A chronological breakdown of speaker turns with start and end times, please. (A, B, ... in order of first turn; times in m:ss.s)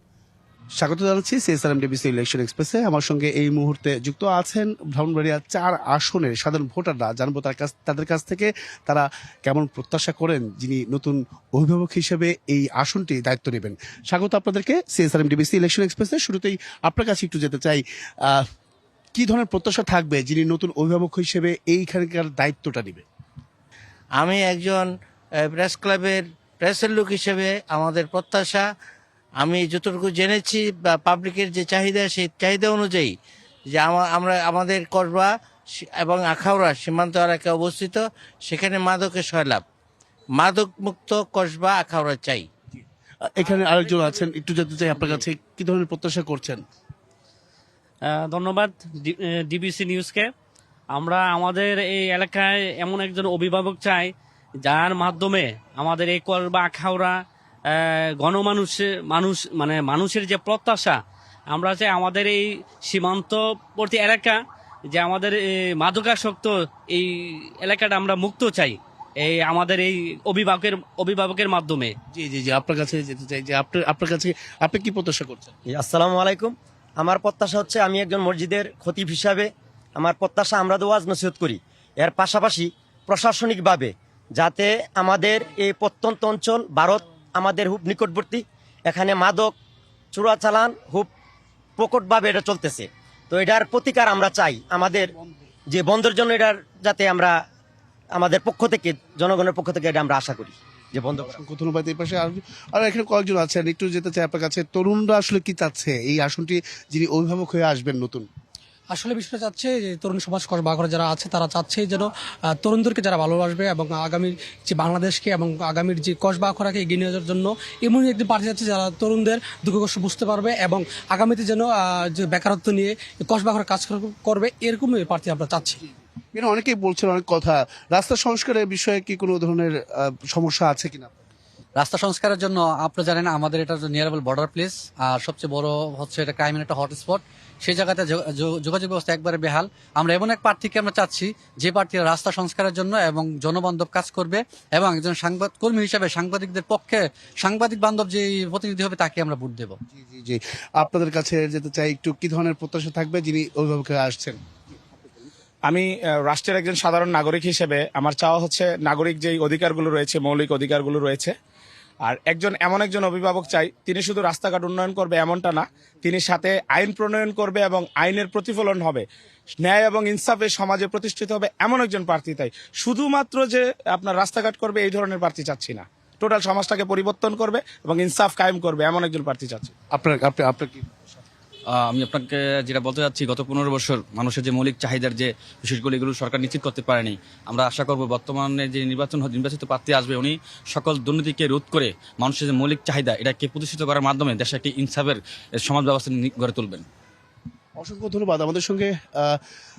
0:00.8-0:18.5 A
0:19.2-0:23.0 A
0:24.2-0:28.7 B
0:29.4-0:33.1 B
0:33.7-0:39.6 B
0:40.4-0:42.5 B
0:43.3-0:46.6 A
0:48.1-0:50.3 C
0:50.9-0:54.1 C
0:54.6-0:57.2 C
0:57.7-1:01.0 C
1:01.5-1:07.1 C
1:07.6-1:11.9 C
1:12.1-1:15.5 A
1:15.7-1:29.6 D
1:30.1-1:31.1 D
1:31.8-1:35.1 D
1:35.7-1:37.4 D
1:38.1-1:41.4 D
1:41.4-1:48.3 A
1:48.9-2:05.8 E
2:06.3-2:11.1 A
2:11.8-2:29.8 F
2:29.9-2:34.4 A
2:35.7-2:41.3 G
2:42.0-2:49.1 G
2:49.6-2:59.7 G
2:59.9-3:01.1 A
3:01.9-3:16.9 H
3:17.8-3:19.4 A